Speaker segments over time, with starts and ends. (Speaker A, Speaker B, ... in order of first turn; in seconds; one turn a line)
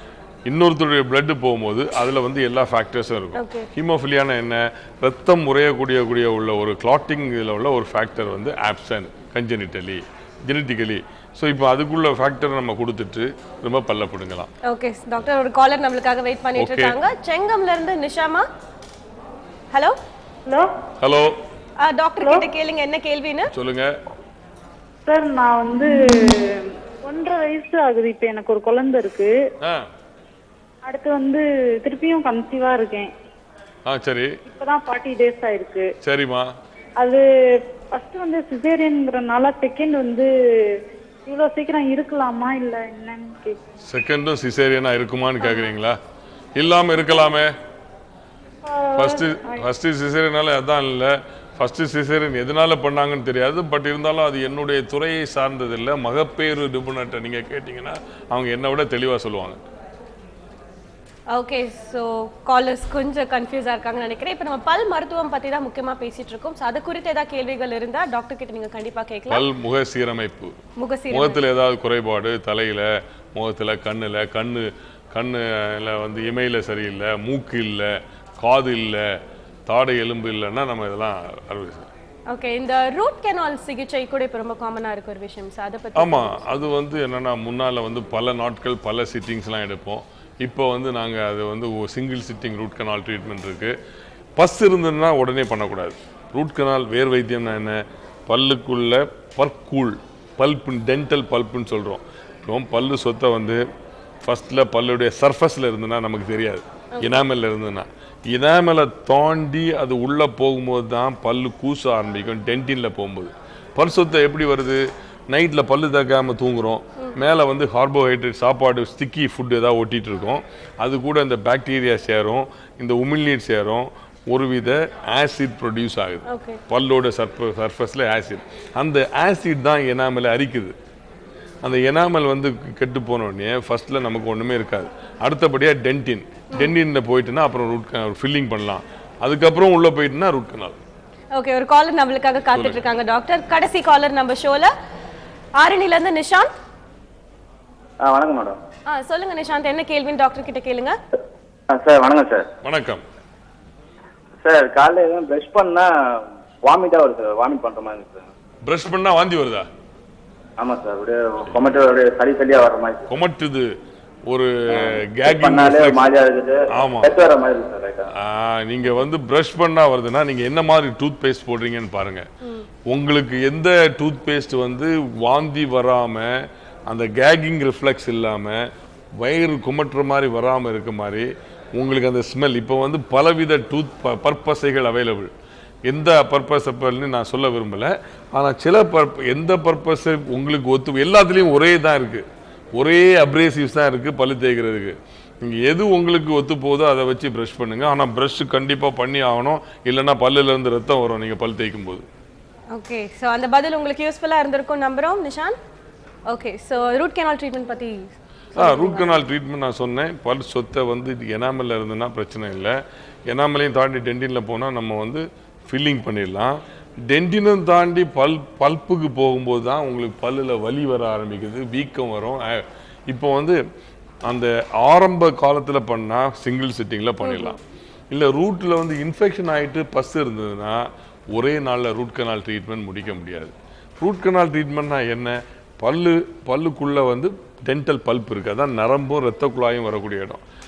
Speaker A: 0.5-14.5
Speaker B: 3.3-3.7
Speaker B: 14.6-18.4
Speaker A: 16.6-16.9
Speaker B: 19.7-20.0
Speaker A: 21.0-21.4
Speaker B: 21.8-23.5
Speaker C: 22.2-22.4
Speaker A: 23.5-23.9
Speaker C: 25.1-29.3
Speaker C: 30.8-33.1
Speaker A: 33.9-34.3
Speaker C: 34.5-35.9
Speaker A: 36.0-36.5
Speaker C: 37.9-40.3
Speaker C: 41.2-43.6
Speaker A: 43.9-46.0
Speaker A: 46.5-47.5
Speaker C: 48.6-49.7
Speaker A: 49.0-59.6
Speaker B: 61.3-69.5
Speaker A: 69.3-70.5
Speaker B: 70.8-71.4
Speaker A: 71.1-79.0
Speaker A: 79.7-81.9
Speaker B: 82.3-86.5
Speaker A: 86.0-93.8
Speaker A: 94.4-103.6
Speaker A: 104.2-130.8
Speaker B: 106.9-107.2
Speaker B: 126.3-126.6
Speaker A: 131.6-140.8
Speaker B: 141.3-144.7
Speaker A: 142.5-142.8
Speaker B: 145.6-146.5
Speaker D: 148.0-148.6
Speaker B: 148.9-151.0
Speaker D: 151.7-152.5
Speaker A: 152.6-153.0
Speaker D: 154.4-158.3
Speaker A: 158.6-159.7
Speaker D: 160.6-163.1
Speaker A: 163.1-163.7
Speaker A: 164.3-166.0
Speaker D: 164.7-168.1
Speaker A: 166.8-167.1
Speaker A: 168.2-172.2
Speaker A: 172.9-178.6
Speaker A: 179.2-185.3
Speaker A: 185.8-202.0
Speaker B: 202.7-205.6
Speaker B: 206.3-209.2
Speaker A: 208.6-223.6
Speaker A: 224.3-227.6
Speaker B: 227.2-227.6
Speaker A: 228.1-240.4